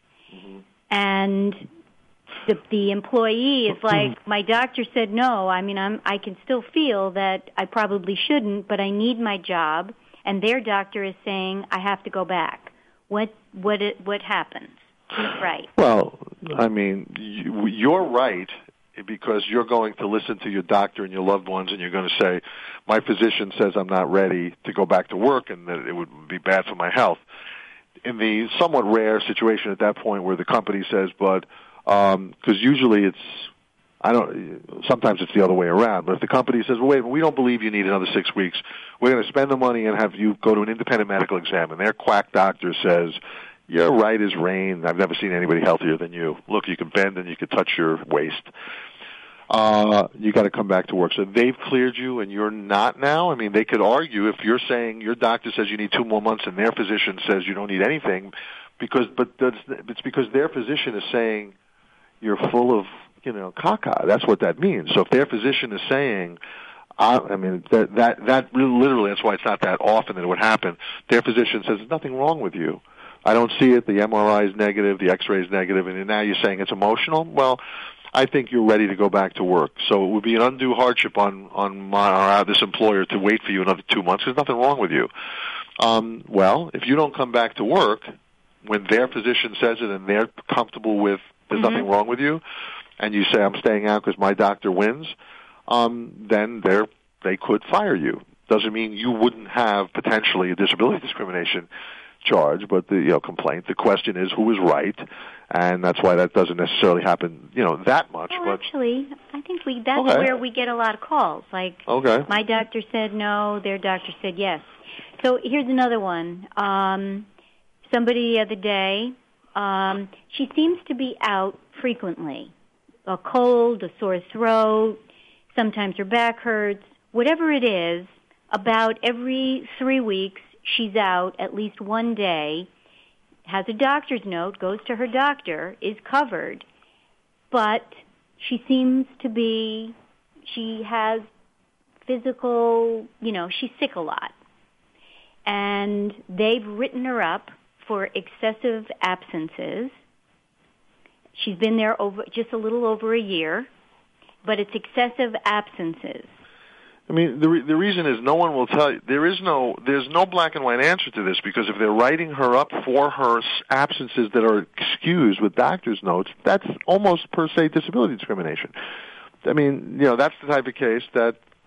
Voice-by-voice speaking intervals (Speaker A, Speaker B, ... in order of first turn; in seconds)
Speaker A: 0.3-0.6, 15.8-27.2, 28.0-33.5, 34.0-48.5, 49.5-61.5, 62.2-66.4, 67.0-77.6, 78.1-85.1, 85.8-88.1, 88.6-92.4, 93.0-95.2, 95.7-101.7, 102.2-108.6, 110.0-110.3, 111.9-112.3, 157.1-168.7, 169.4-171.4
Speaker B: 0.9-1.7, 2.5-15.7, 91.6-91.9, 108.3-114.7, 115.2-117.3, 117.9-122.5, 123.1-125.0, 125.5-132.7, 133.5-136.7, 137.5-140.0, 140.5-141.3, 142.1-144.3, 145.5-149.9, 151.4-153.7, 154.4-156.3